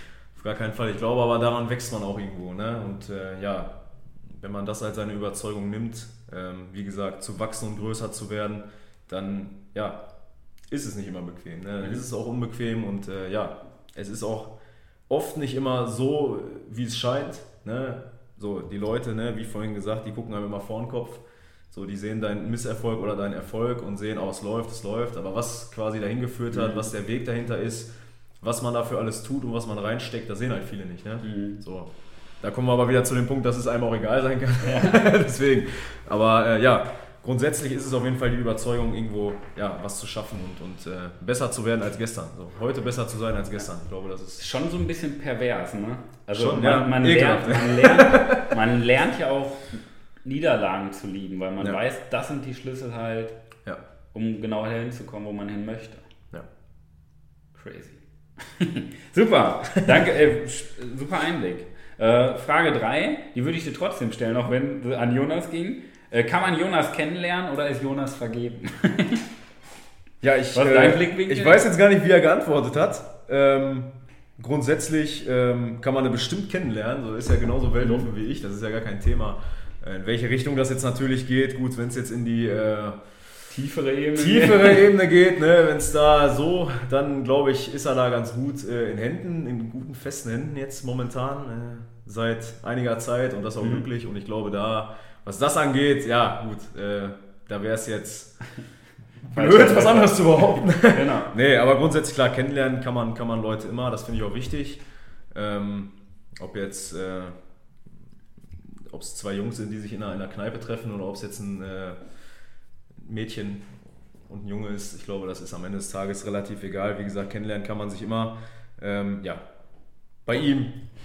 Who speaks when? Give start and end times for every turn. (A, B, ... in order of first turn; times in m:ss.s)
0:00.3-0:10.0 A
0:10.7-0:14.5 A
0:15.1-0:44.4 A
0:26.5-0:26.8 B
0:31.2-0:31.6 B
0:34.6-0:35.1 B
0:44.4-0:53.4 B
0:46.3-0:48.6 A
0:54.1-0:56.0 B
0:57.5-1:09.2 B
1:10.2-1:23.1 A
1:10.5-1:11.6 B
1:23.5-1:24.9 B
1:24.1-1:38.4 A
1:39.2-1:41.3 B
1:39.2-1:47.4 A
1:48.7-1:52.0 A
1:53.0-1:53.7 A
1:54.3-1:59.4 A
2:00.2-2:00.8 A